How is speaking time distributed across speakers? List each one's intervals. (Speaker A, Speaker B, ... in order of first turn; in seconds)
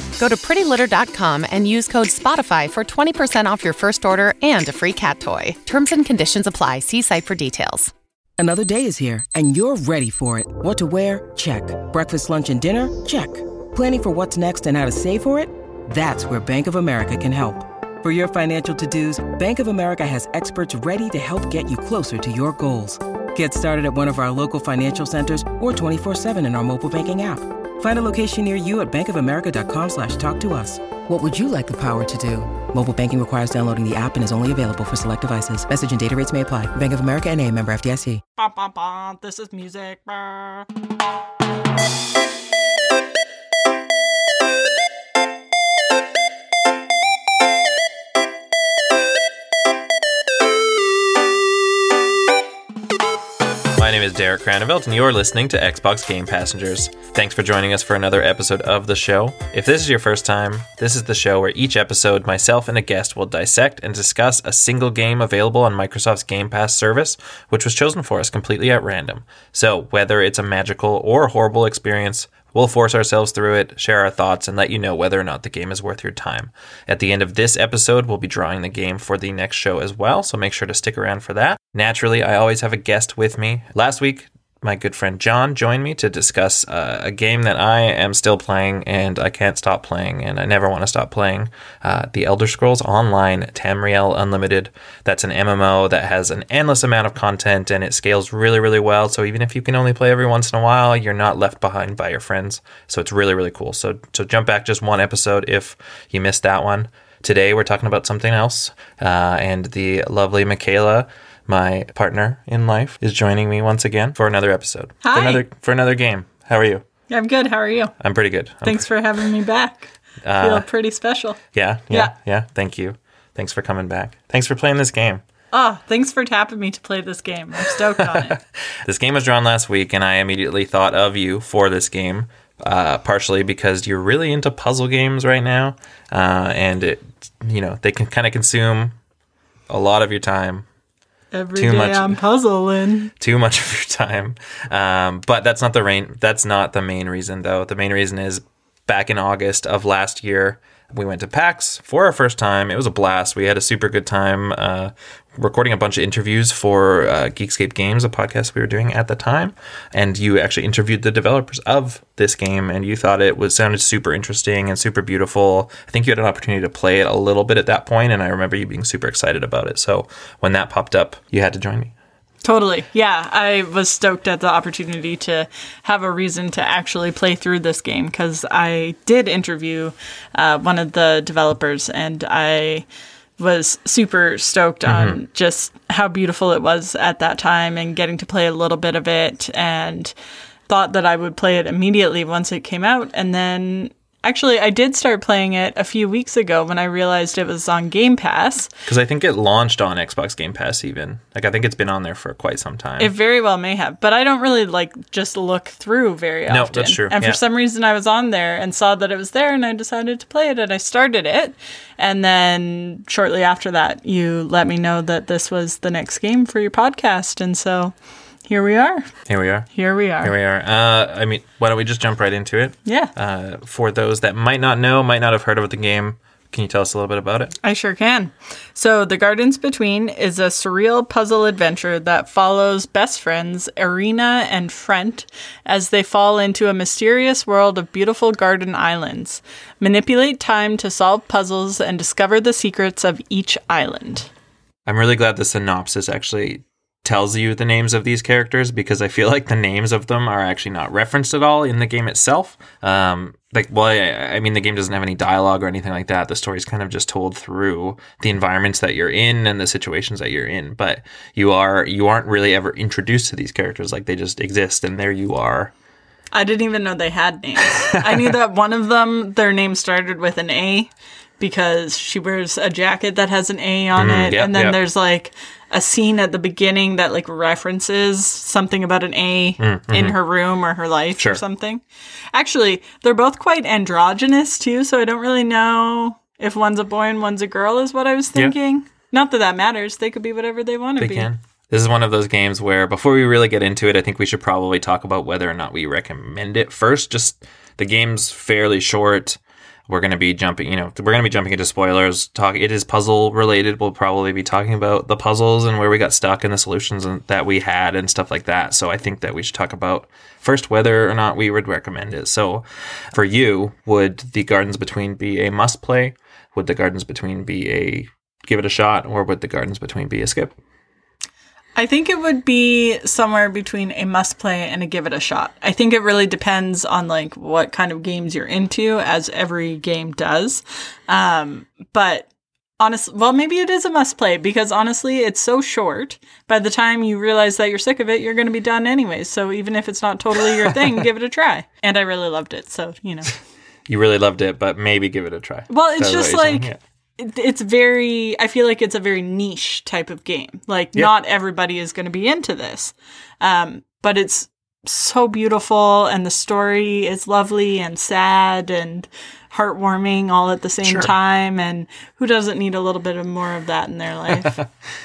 Speaker A: 0.2-7.9
Speaker B: 8.4-38.2
Speaker C: 38.4-40.7, 115.0-115.4, 117.1-117.9, 118.6-121.4, 125.5-128.4, 141.3-143.1, 172.4-182.9, 183.4-190.1, 190.7-198.7, 203.0-217.9, 218.5-219.1, 219.7-220.3, 222.9-223.1, 227.6-244.3, 266.3-281.8, 282.3-291.3, 321.8-332.3, 332.8-343.3, 345.7-364.6
Speaker D: 53.7-116.8, 118.0-118.9, 120.2-120.7, 121.5-125.2, 128.0-139.0, 139.7-140.7, 141.6-142.2, 143.2-171.9, 184.9-185.2, 198.9-203.1, 206.5-207.4, 219.3-219.7, 220.2-227.6, 244.9-265.7, 267.7-268.3, 273.9-274.8, 279.6-280.2, 291.0-320.5, 340.7-341.0, 343.9-346.8, 360.8-361.1